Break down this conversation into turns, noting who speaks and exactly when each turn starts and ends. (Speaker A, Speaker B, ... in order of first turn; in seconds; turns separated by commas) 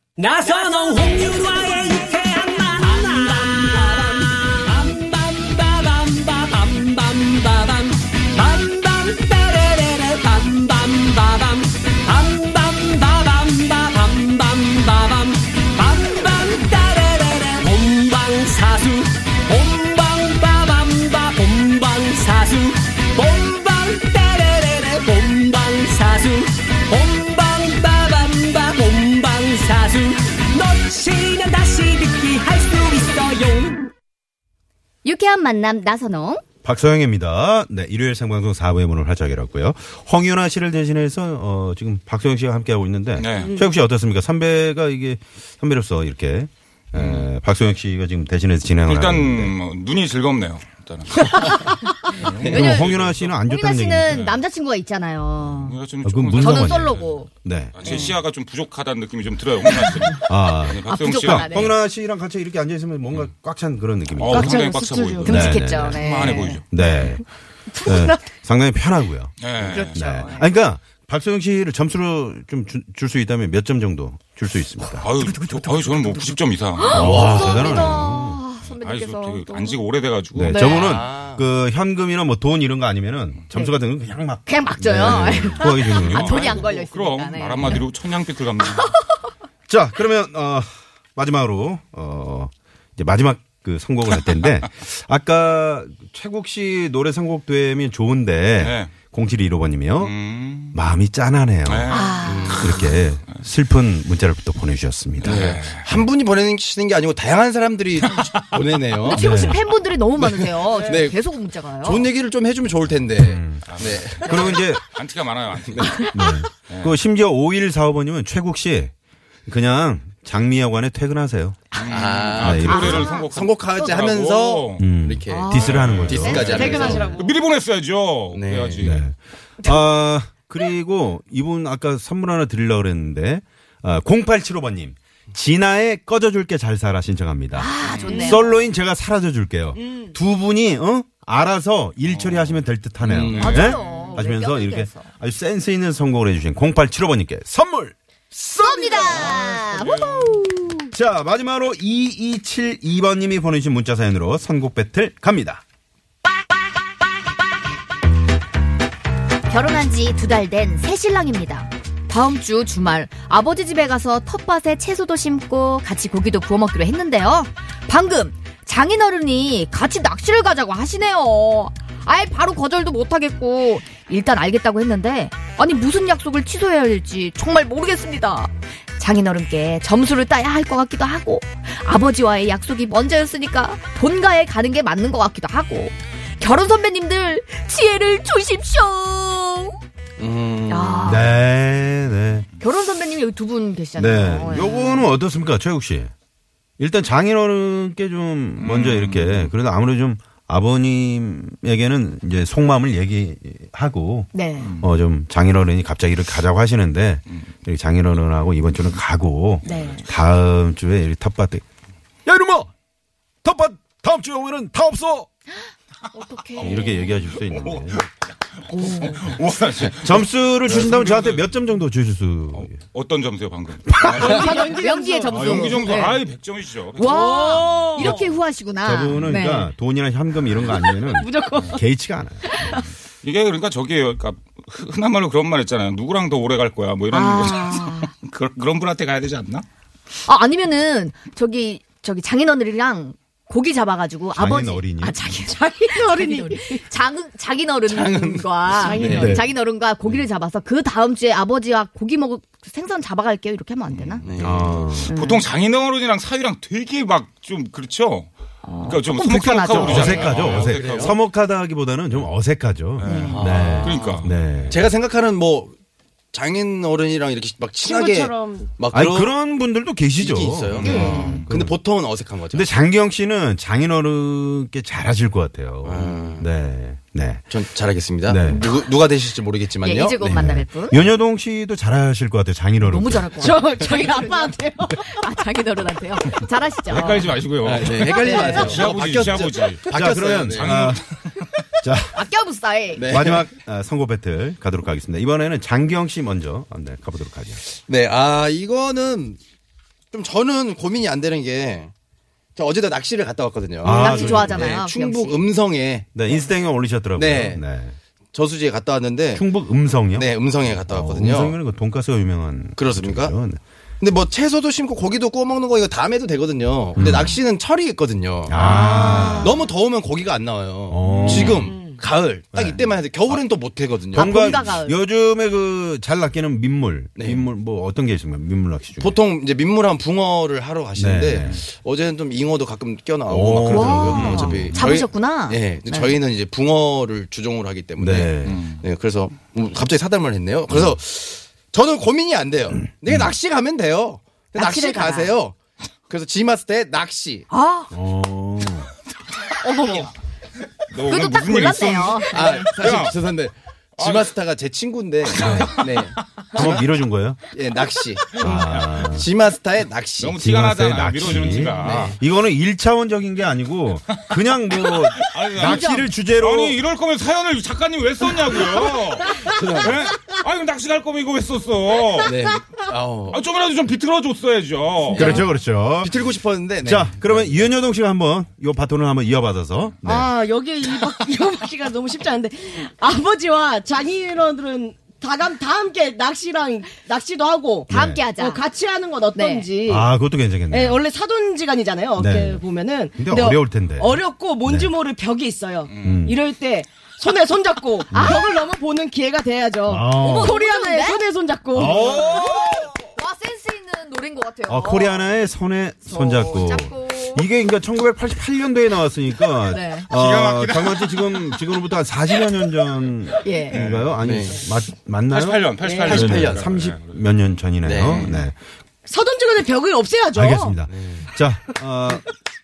Speaker A: 0.2-33.9, Speaker B: 35.0-36.4, Speaker C: 36.6-49.5, Speaker D: 43.1-43.6, Speaker D: 46.9-47.3, Speaker D: 48.9-53.4, Speaker C: 52.4-54.2, Speaker B: 52.5-52.9, Speaker B: 53.5-55.7, Speaker D: 54.0-54.4, Speaker D: 55.4-57.2, Speaker C: 56.0-58.1, Speaker B: 56.4-57.3, Speaker D: 57.7-61.7, Speaker C: 60.2-64.6, Speaker B: 60.9-61.7, Speaker D: 64.2-66.6, Speaker E: 64.3-65.4, Speaker B: 65.2-66.6, Speaker C: 65.2-66.0, Speaker C: 66.7-67.2, Speaker C: 67.8-75.1, Speaker E: 67.8-68.1, Speaker D: 69.4-70.2, Speaker B: 69.6-70.5, Speaker D: 74.9-77.3, Speaker B: 75.2-79.8, Speaker C: 76.9-78.4, Speaker F: 76.9-78.0, Speaker D: 78.8-80.7, Speaker C: 80.3-86.7, Speaker B: 80.5-80.9, Speaker F: 80.6-81.4, Speaker B: 84.5-87.9, Speaker D: 85.7-89.0, Speaker B: 88.7-89.0, Speaker C: 89.7-100.1, Speaker D: 98.6-98.9, Speaker D: 100.0-100.8, Speaker C: 100.7-105.4, Speaker D: 101.6-102.8, Speaker B: 101.9-102.7, Speaker F: 102.2-103.0, Speaker D: 105.2-106.0, Speaker F: 105.2-109.2, Speaker D: 108.0-108.7, Speaker B: 109.1-112.1, Speaker C: 109.1-109.6, Speaker F: 110.2-111.2, Speaker F: 111.8-114.6, Speaker C: 113.2-114.8, Speaker D: 113.7-116.1, Speaker F: 115.7-116.0, Speaker C: 116.1-118.9, Speaker D: 116.7-116.9, Speaker C: 119.5-121.7, Speaker D: 121.7-124.9, Speaker F: 121.9-127.2, Speaker C: 122.4-123.1, Speaker B: 122.6-123.2, Speaker C: 124.8-127.1, Speaker B: 125.3-125.9, Speaker D: 125.5-129.1, Speaker E: 126.3-127.2, Speaker F: 128.3-129.0, Speaker C: 128.8-149.6, Speaker B: 137.5-138.5, Speaker D: 137.8-138.3, Speaker D: 142.0-144.1, Speaker F: 143.0-143.7, Speaker B: 143.4-145.1, Speaker B: 148.6-150.9, Speaker D: 149.1-150.4, Speaker C: 150.9-155.6, Speaker B: 159.5-189.8, Speaker F: 190.2-191.2, Speaker B: 190.7-191.4, Speaker C: 191.0-192.5, Speaker B: 192.6-195.1, Speaker C: 193.9-196.1, Speaker C: 196.8-211.6, Speaker D: 198.6-199.5, Speaker B: 204.3-204.7, Speaker B: 209.6-210.1, Speaker C: 212.2-212.7, Speaker C: 213.4-215.3, Speaker B: 216.1-217.1, Speaker C: 216.6-218.0, Speaker D: 216.6-216.9, Speaker D: 217.5-218.1, Speaker B: 218.7-219.2, Speaker D: 218.8-221.6, Speaker C: 219.9-222.7, Speaker D: 222.5-224.7, Speaker C: 223.9-224.4, Speaker B: 224.0-226.2, Speaker E: 224.2-225.8, Speaker D: 225.3-227.6, Speaker B: 226.9-229.7, Speaker E: 227.0-228.3, Speaker C: 228.0-228.3, Speaker C: 228.8-232.5, Speaker E: 230.6-231.8, Speaker D: 233.2-239.6, Speaker B: 237.1-238.1, Speaker B: 240.2-254.2, Speaker C: 244.3-245.2, Speaker E: 245.6-246.7, Speaker F: 247.9-249.4, Speaker E: 248.8-249.4, Speaker C: 249.0-249.5, Speaker F: 253.9-254.9, Speaker C: 254.4-255.1, Speaker D: 255.0-261.2, Speaker B: 255.1-255.4, Speaker B: 258.6-260.4, Speaker C: 259.6-264.9, Speaker F: 259.7-261.1, Speaker D: 262.1-262.3, Speaker D: 263.0-264.3, Speaker B: 263.0-263.7, Speaker F: 263.2-265.7, Speaker F: 266.3-269.3, Speaker E: 267.8-268.7, Speaker C: 268.9-271.8, Speaker F: 270.2-272.7, Speaker D: 270.8-271.5, Speaker B: 270.8-271.4, Speaker C: 272.5-277.6, Speaker F: 275.8-276.5, Speaker F: 277.5-280.2, Speaker C: 278.2-278.6, Speaker B: 278.4-278.9, Speaker B: 279.8-281.1, Speaker C: 280.2-283.3, Speaker B: 282.8-287.2, Speaker E: 283.4-285.2, Speaker D: 286.9-289.9, Speaker C: 286.9-287.4, Speaker F: 287.6-290.7, Speaker E: 288.1-288.8, Speaker B: 288.2-288.7, Speaker C: 289.9-291.0, Speaker D: 290.4-291.6, Speaker C: 291.8-292.2, Speaker B: 292.1-293.1, Speaker F: 292.9-293.5, Speaker C: 293.0-297.6, Speaker F: 297.6-299.4, Speaker F: 300.1-301.9, Speaker F: 302.6-306.1, Speaker C: 303.8-304.8, Speaker B: 303.8-305.4, Speaker C: 306.1-307.9, Speaker F: 307.1-307.6, Speaker F: 308.3-309.4, Speaker C: 309.3-313.6, Speaker F: 310.1-311.6, Speaker F: 312.8-313.4, Speaker F: 314.0-318.9, Speaker C: 317.0-317.3, Speaker C: 318.5-319.6, Speaker B: 318.5-319.6, Speaker F: 319.4-324.4, Speaker C: 320.9-321.7, Speaker D: 321.1-321.5, Speaker E: 321.5-322.0, Speaker C: 322.5-323.4, Speaker C: 324.1-329.2, Speaker B: 324.1-325.0, Speaker F: 327.1-327.4, Speaker F: 329.0-345.6, Speaker C: 330.9-331.6, Speaker C: 333.3-334.8, Speaker B: 333.7-336.2, Speaker C: 338.0-338.6, Speaker D: 338.4-338.8, Speaker C: 343.1-343.3, Speaker B: 344.6-345.3, Speaker F: 346.1-347.5, Speaker B: 347.5-347.9, Speaker C: 347.9-348.9, Speaker B: 349.6-350.1, Speaker D: 350.9-353.2, Speaker B: 351.0-352.4, Speaker F: 352.3-356.8, Speaker D: 354.0-354.3, Speaker D: 355.3-356.0, Speaker C: 355.3-355.8, Speaker C: 356.5-357.4, Speaker F: 357.5-360.4, Speaker D: 358.3-359.1, Speaker C: 358.4-359.3, Speaker D: 360.2-362.1, Speaker C: 360.4-366.8, Speaker F: 361.8-362.2, Speaker D: 365.2-372.5, Speaker F: 369.4-369.9, Speaker F: 372.2-373.4, Speaker D: 373.3-375.3, Speaker F: 375.1-375.5, Speaker C: 375.1-376.1, Speaker F: 376.0-377.7, Speaker C: 376.8-380.3, Speaker E: 380.1-390.1, Speaker C: 387.9-388.2, Speaker B: 387.9-388.6, Speaker B: 389.3-389.7, Speaker C: 389.9-391.0, Speaker E: 390.7-402.2, Speaker C: 392.2-392.6, Speaker C: 393.1-394.9, Speaker D: 395.9-396.3, Speaker C: 396.0-396.4, Speaker B: 398.1-398.4, Speaker C: 398.1-398.4, Speaker C: 399.9-400.5, Speaker B: 400.2-401.2, Speaker C: 401.7-402.9, Speaker B: 401.8-405.4, Speaker C: 404.6-418.5, Speaker B: 406.1-407.4, Speaker B: 409.6-410.1, Speaker D: 410.1-411.7, Speaker B: 413.4-413.8, Speaker D: 413.7-414.3, Speaker F: 414.2-414.6, Speaker D: 415.3-417.2, Speaker F: 415.8-416.7, Speaker F: 417.8-418.4, Speaker E: 419.1-420.8, Speaker C: 420.3-422.3, Speaker F: 420.9-421.3